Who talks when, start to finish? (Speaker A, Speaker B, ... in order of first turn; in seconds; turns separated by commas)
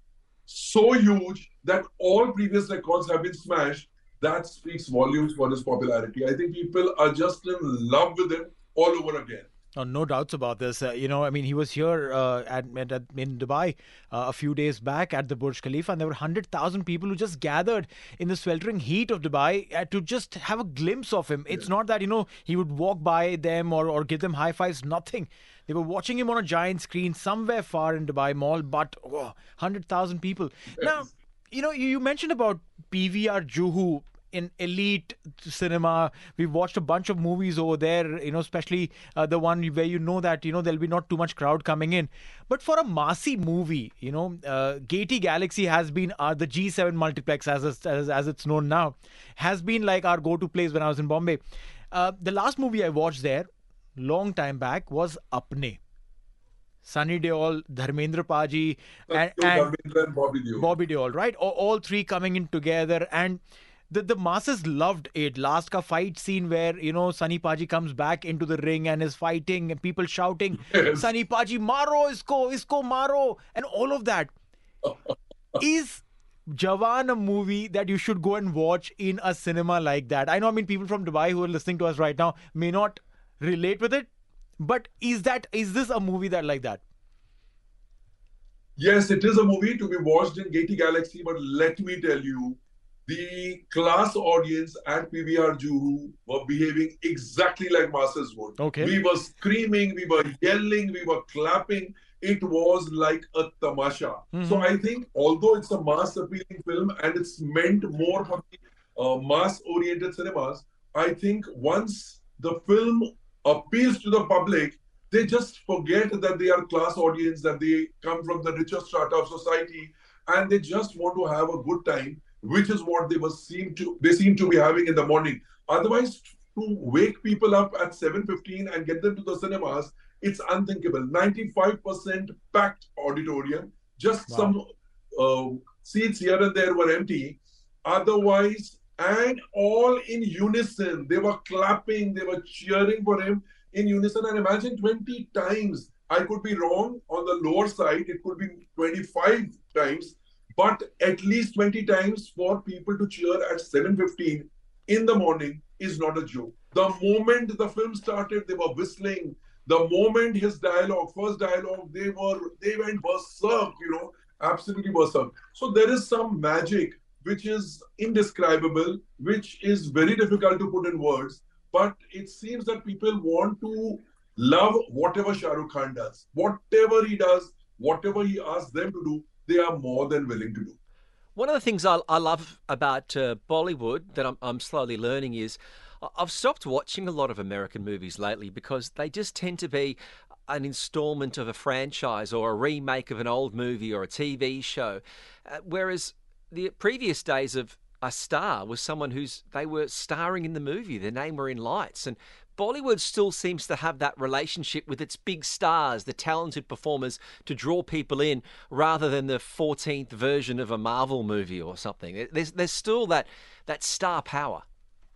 Speaker A: 0.5-9.5, Speaker B: 9.8-51.4, Speaker B: 51.9-55.8, Speaker B: 56.8-59.7, Speaker A: 59.1-60.7, Speaker B: 60.5-74.3, Speaker A: 70.7-71.0, Speaker B: 75.6-84.1, Speaker B: 84.6-86.8, Speaker A: 88.8-134.6, Speaker B: 98.6-98.9, Speaker B: 104.3-104.7, Speaker B: 134.3-134.6, Speaker A: 135.2-180.8, Speaker C: 181.3-214.6